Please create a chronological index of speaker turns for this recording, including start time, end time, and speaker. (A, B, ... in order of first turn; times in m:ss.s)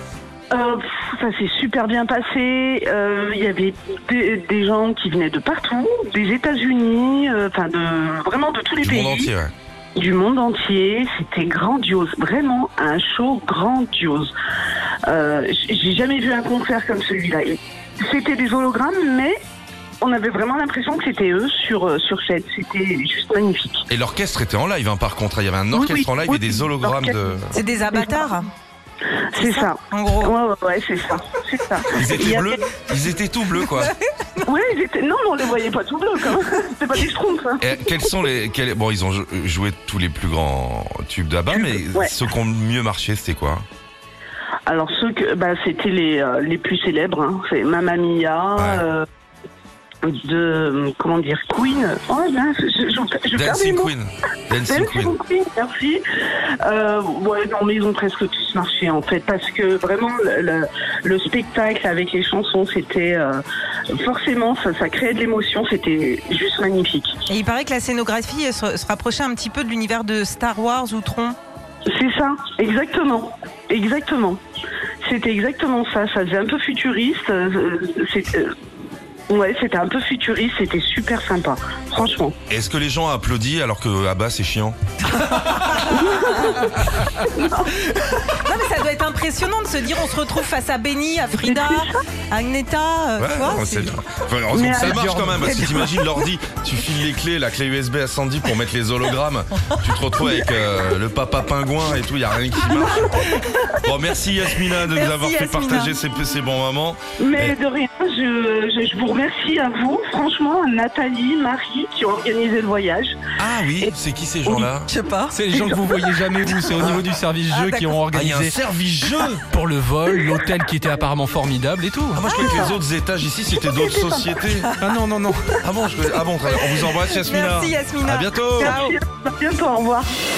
0:00.5-0:09.3 A
0:08.8-0:09.5 B
0:10.0-0:14.3 A
0:15.0-0:19.4 A
0:20.0-0:23.8 A
0:23.9-0:27.5 B
0:25.7-0:28.3 A
0:27.5-0:28.5 C
0:29.3-0:32.6 A
0:29.4-0:30.3 C
0:31.9-0:33.9 B
0:33.6-0:34.4 C
0:34.4-0:37.8 A
0:37.6-0:43.6 B
0:41.5-0:42.1 A
0:44.7-0:49.0 A
0:48.6-0:48.8 B
0:50.0-0:53.9 A
0:53.3-0:55.1 B
0:54.6-1:03.4 A
1:03.9-1:07.2 A
1:07.3-1:11.4 C
1:11.9-1:14.4 A
1:15.0-1:18.5 A
1:19.3-1:22.4 A
1:22.5-1:24.8 B
1:25.8-1:27.7 A
1:28.1-1:33.9 C
1:31.4-1:31.9 A
1:33.2-1:43.2 B
1:34.5-1:35.9 A
1:34.7-1:35.8 D
1:42.6-1:43.5 C
1:42.8-1:43.6 A
1:43.8-1:47.6 B
1:44.8-1:46.0 C
1:47.2-1:53.2 A
1:53.4-1:54.9 B
1:54.8-1:55.9 C
1:55.3-1:58.6 D
1:57.5-1:58.0 C
1:58.1-1:59.4 B
1:59.5-2:02.2 D
2:02.1-2:04.7 B
2:02.3-2:02.8 A
2:03.5-2:04.5 A
2:04.8-2:05.6 D
2:05.6-2:08.8 B
2:06.5-2:09.0 C
2:08.6-2:10.1 A